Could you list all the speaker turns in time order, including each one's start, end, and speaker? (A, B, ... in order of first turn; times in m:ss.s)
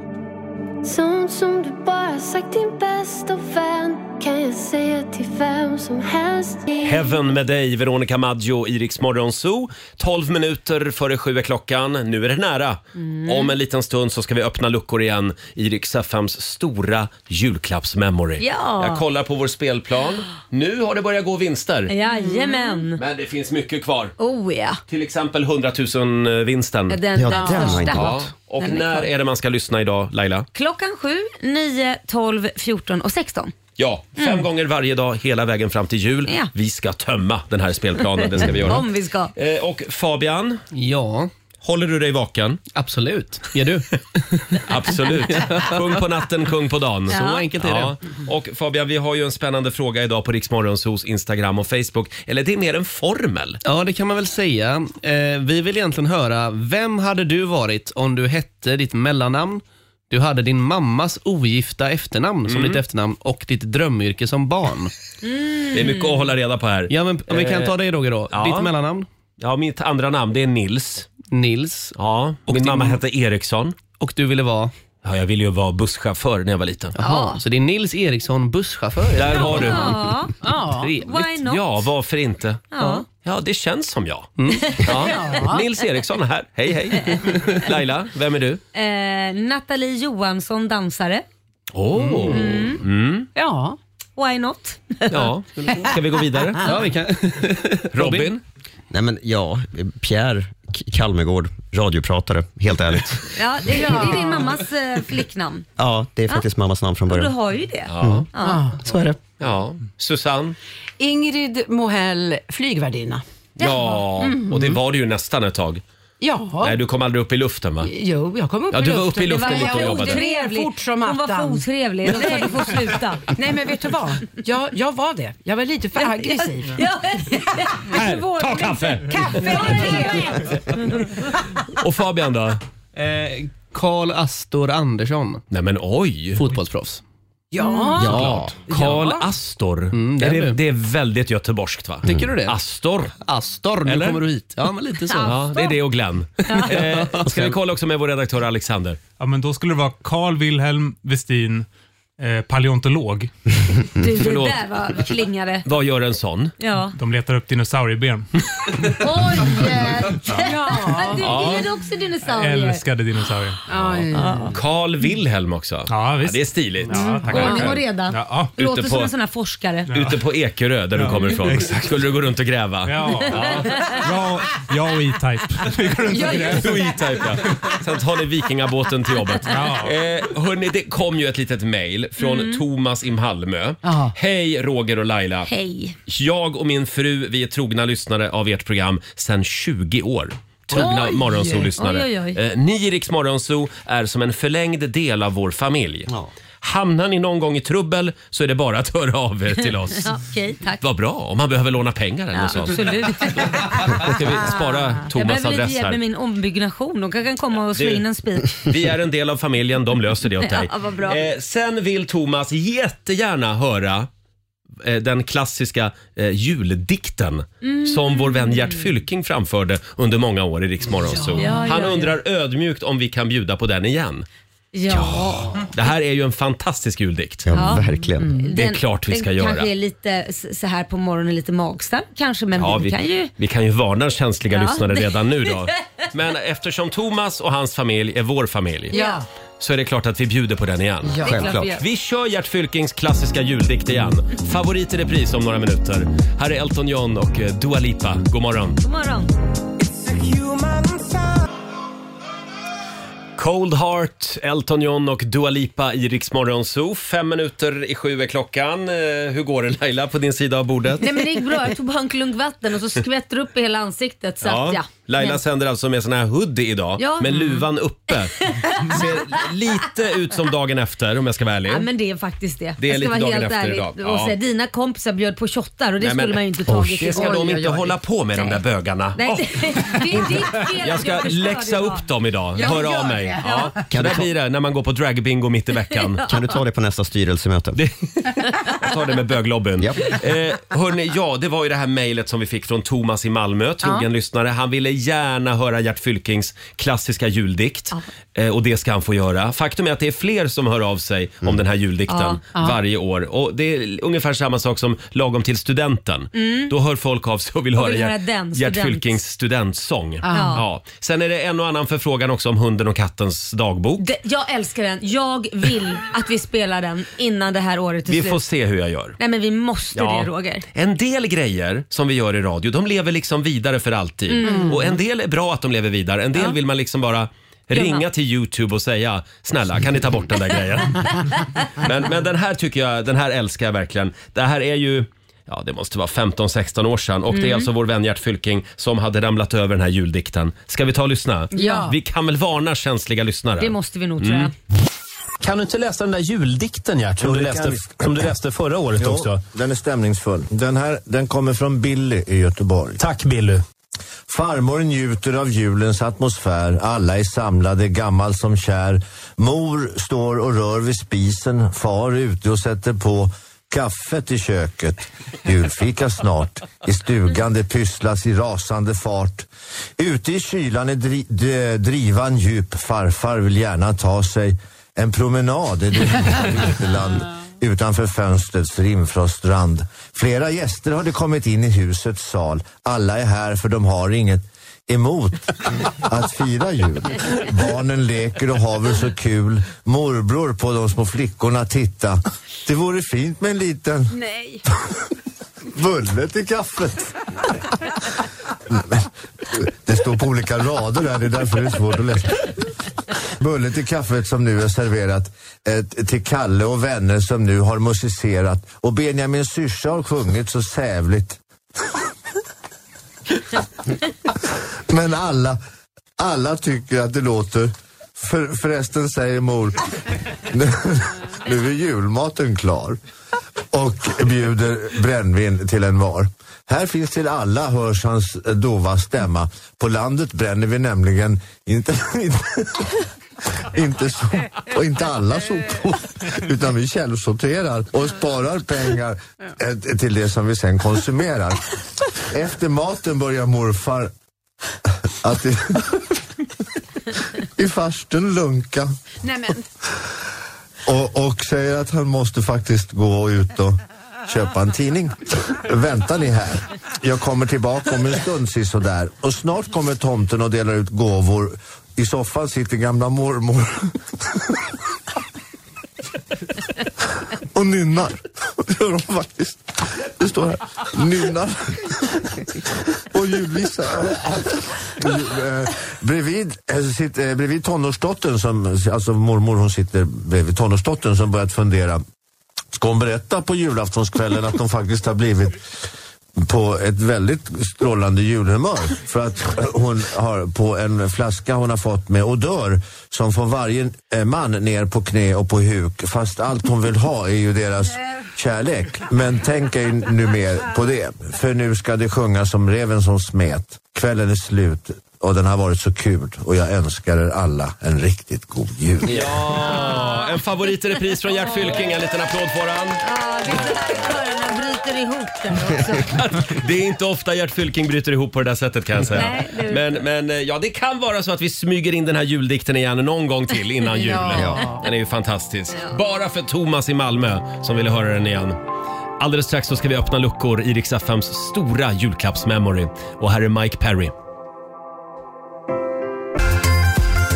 0:00.8-0:07.2 A
0:06.8-0:21.9 B
0:13.0-0:13.5 C
0:18.4-0:19.0 C
0:21.9-0:23.0 C
0:22.2-0:22.5 D
0:23.0-0:24.1 B
0:24.2-0:24.8 C
0:24.9-0:27.0 B
0:26.9-0:29.1 C
0:27.2-0:28.2 E
0:27.3-0:27.9 D
0:27.8-0:30.5 B
0:30.5-0:33.5 C
0:33.8-0:40.6 B
0:34.2-0:34.4 C
0:38.2-0:39.3 C
0:40.7-0:41.3 F
0:41.6-0:42.6 B
0:42.7-0:44.6 F
0:44.6-0:53.6 B
0:45.2-0:46.0 F
0:47.1-0:48.0 F
0:47.1-0:47.4 C
0:53.6-1:04.9 F
1:02.5-1:02.8 B
1:05.2-1:06.2 C
1:05.7-1:07.7 B
1:06.9-1:09.1 F
1:08.3-1:08.7 B
1:09.4-1:11.1 B
1:11.3-1:13.0 F
1:12.0-1:13.8 B
1:14.0-1:14.7 F
1:15.0-1:16.9 B
1:16.9-1:20.0 F
1:17.0-1:17.4 C
1:19.1-1:20.0 B
1:19.3-1:20.3 C
1:20.4-1:20.9 D
1:20.8-1:21.2 F
1:21.0-1:21.6 C
1:21.2-1:24.3 B
1:22.7-1:23.0 C
1:24.4-1:24.7 F
1:24.8-1:28.6 B
1:24.9-1:25.6 D
1:28.7-1:31.2 C
1:31.7-1:33.3 B
1:31.9-1:32.4 F
1:32.3-1:32.8 C
1:33.3-1:33.8 D
1:34.2-1:35.3 C
1:35.1-1:36.8 B
1:36.6-1:38.3 F
1:37.9-1:38.4 B
1:38.9-1:43.3 E
1:43.3-1:45.6 C
1:43.7-1:44.6 D
1:45.8-1:47.3 E
1:47.1-1:48.7 C
1:47.9-1:48.3 B
1:48.0-1:48.3 E
1:48.4-1:48.8 D
1:48.8-1:49.2 E
1:49.4-1:50.6 B
1:51.0-1:53.2 D
1:53.6-1:55.8 B
1:54.2-1:54.8 D
1:56.2-1:56.8 D
1:56.6-1:57.9 B
1:57.8-2:02.7 D
1:58.7-2:00.3 B
1:59.3-2:03.2 C
2:03.3-2:06.8 D
2:06.0-2:08.1 C
2:07.8-2:11.0 D
2:07.9-2:09.8 B
2:09.5-2:10.2 C
2:11.8-2:12.6 B
2:12.9-2:15.4 F
2:15.5-2:16.4 B
2:16.4-2:17.0 F
2:17.5-2:19.3 D
2:17.6-2:18.0 C
2:18.0-2:23.2 B
2:18.0-2:18.5 F
2:19.9-2:20.6 F
2:22.0-2:22.6 F
2:23.2-2:25.5 F
2:23.8-2:24.2 B
2:25.1-2:25.6 C
2:25.2-2:29.0 B
2:26.4-2:26.8 C
2:26.5-2:27.6 F
2:29.2-2:31.6 G
2:32.2-2:33.3 G
2:34.0-2:35.6 C
2:34.1-2:34.6 B
2:35.6-2:36.5 B
2:36.6-2:36.9 C
2:36.9-2:38.2 G
2:39.0-2:42.8 C
2:40.3-2:41.6 D
2:41.2-2:41.7 B
2:42.3-2:43.6 G
2:43.7-2:44.5 D
2:44.1-2:44.5 C
2:44.5-2:47.8 B
2:45.9-2:48.5 G
2:46.9-2:49.9 C
2:48.6-2:49.1 B
2:49.9-2:50.2 G
2:49.9-2:53.7 B
2:50.9-2:51.8 G
2:52.8-2:57.0 G
2:56.1-2:56.7 C
2:56.3-3:05.5 B
2:59.4-2:59.9 G
3:02.2-3:02.6 C
3:03.8-3:04.1 D
3:05.4-3:06.0 C
3:06.1-3:16.1 B
3:10.7-3:11.7 D
3:10.7-3:11.1 C
3:11.8-3:12.4 C
3:16.6-3:20.1 B
3:20.0-3:20.8 C
3:20.8-3:26.0 B
3:22.3-3:24.1 C
3:25.0-3:28.6 C
3:27.7-3:28.0 B
3:28.6-3:34.1 B
3:30.4-3:31.2 C
3:34.8-3:44.2 B
3:37.6-3:38.8 C
3:41.1-3:41.6 D
3:41.4-3:42.1 C
3:44.7-3:45.6 C
3:44.9-3:47.5 B
3:47.4-3:48.3 E
3:47.5-3:53.3 C
3:48.5-3:49.7 B
3:52.6-3:59.0 B
3:54.5-3:55.5 C
3:58.9-3:59.2 D
3:58.9-3:59.2 C
3:59.6-4:08.8 B
4:01.0-4:01.4 D
4:01.2-4:01.8 C
4:01.2-4:01.7 E
4:08.8-4:09.3 C
4:10.1-4:11.0 D
4:13.4-4:21.2 B
4:21.0-4:25.4 C
4:24.4-4:31.9 B
4:27.0-4:29.4 C
4:31.7-4:37.4 C
4:32.8-4:34.3 B
4:36.0-4:46.3 B
4:37.1-4:38.0 D
4:39.2-4:42.0 C
4:42.6-4:43.8 D
4:43.4-4:43.7 C
4:43.9-4:44.3 E
4:46.3-4:47.8 E
4:47.8-4:48.1 B
4:48.6-5:14.0 B
4:49.8-4:50.1 E
5:02.1-5:02.4 C
5:02.5-5:02.8 D
5:06.3-5:06.7 C
5:07.8-5:09.2 C
5:10.2-5:10.6 D
5:10.3-5:10.6 C
5:14.0-5:18.4 C
5:18.1-5:19.2 B
5:19.2-5:20.6 C
5:19.9-5:44.5 B
5:24.3-5:24.7 C
5:24.4-5:24.9 D
5:27.7-5:28.0 C
5:37.3-5:37.7 C
5:41.5-5:41.9 D
5:41.5-5:41.8 C
5:43.6-5:44.5 C
5:45.4-5:49.4 B
5:47.2-5:48.2 H
5:49.0-5:53.0 H
5:53.0-5:53.6 B
5:54.3-6:34.1 H
6:34.1-6:34.6 C
6:35.7-6:37.2 H
6:38.7-6:42.5 H
6:43.3-6:51.4 H
6:54.9-6:55.6 H
6:56.2-6:59.8 H
7:00.5-7:03.0 H
7:03.7-7:13.0 H
7:13.6-7:21.6 H
7:22.2-7:24.1 H
7:25.1-7:26.0 H
7:27.6-7:28.9 H
7:29.2-7:29.6 D
7:30.8-7:44.6 H
7:47.3-8:02.0 H
8:02.7-8:05.6 H
8:06.4-8:29.3 H
8:29.1-8:33.7 B
8:29.6-8:30.3 C
8:31.3-8:31.9 C
8:33.0-8:36.1 C
8:36.0-8:48.6 B
8:39.1-8:39.8 C
8:44.1-8:44.8 D
8:44.4-8:44.6 E
8:49.2-8:54.1 B